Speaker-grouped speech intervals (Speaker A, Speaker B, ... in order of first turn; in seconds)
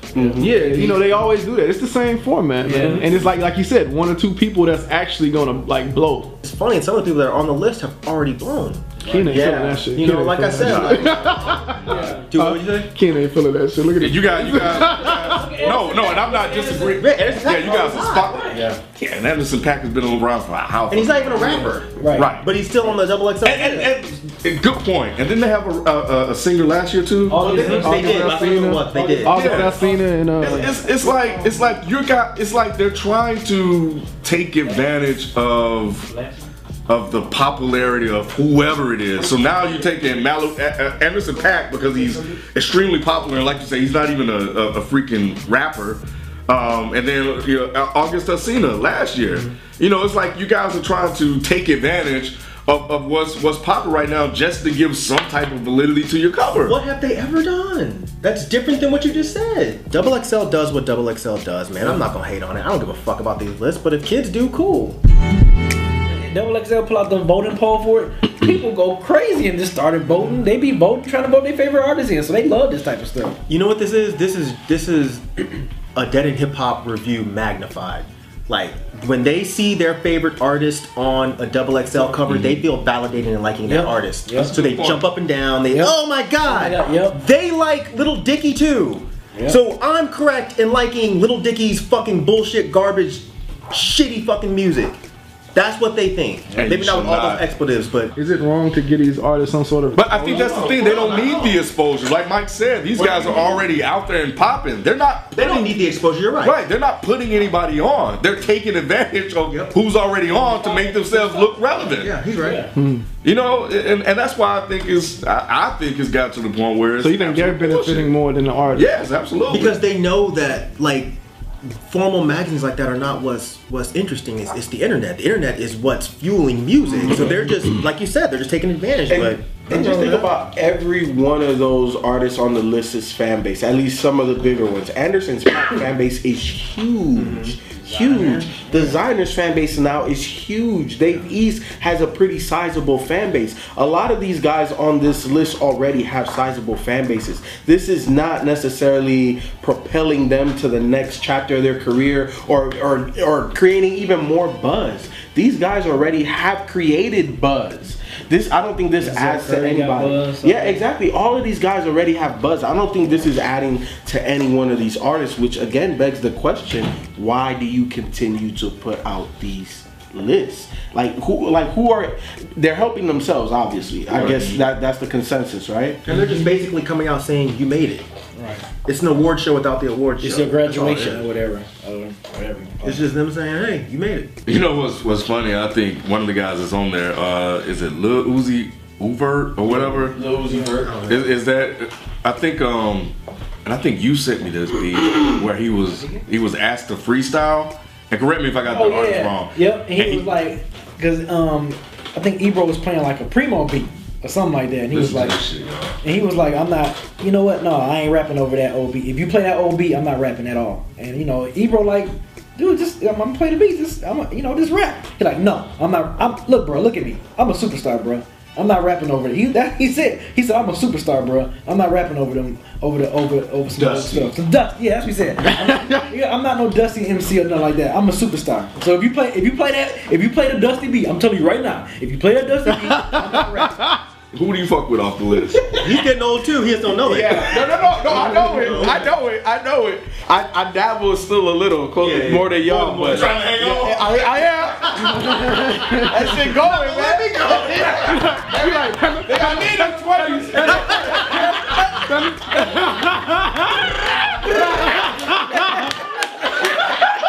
Speaker A: 0.1-0.6, 27.4-27.8, 30.4-31.8, 103.0-103.7, 129.1-176.2, 189.6-191.3, 237.1-251.4
Speaker B: 0.2-6.3, 9.1-11.8, 12.3-15.6, 27.8-30.7, 98.2-100.5, 112.8-113.1, 117.0-119.0, 245.6-246.2, 248.1-251.2, 252.1-253.5, 254.0-254.5, 255.2-255.6
Speaker C: 2.6-3.1, 11.9-12.2, 14.4-18.6, 22.0-22.3, 27.3-28.0, 34.6-35.0, 36.1-36.5, 66.1-73.4, 83.7-84.5, 85.7-87.2, 110.4-111.5, 112.4-112.7, 137.7-139.0, 159.0-160.9, 176.2-176.4, 178.4-178.7, 180.2-183.0, 190.5-190.7, 195.8-196.2, 198.6-205.4, 206.0-233.8, 251.3-251.8
Speaker D: 6.4-11.4, 11.9-12.9, 16.9-18.3, 20.9-23.9, 27.4-29.7, 56.6-65.0, 73.5-95.0, 95.5-98.1, 100.2-101.6, 105.4-106.6, 109.5-109.8, 112.0-112.7, 119.5-130.3, 137.1-137.6, 176.1-178.1, 178.8-181.2, 182.8-184.3, 235.8-237.5, 238.1-239.0, 242.1-242.4, 246.5-248.5
Speaker E: 10.6-12.2, 14.0-22.5, 23.4-28.5, 29.3-29.8, 30.4-36.1, 36.9-56.8, 82.3-82.6, 84.4-85.1, 96.5-97.5, 99.9-105.8, 106.4-112.2, 113.2-118.1, 118.7-119.8, 174.1-174.6, 184.5-190.2, 191.1-193.1, 193.7-200.4, 204.9-206.1, 223.8-224.3, 234.3-235.8, 242.6-244.4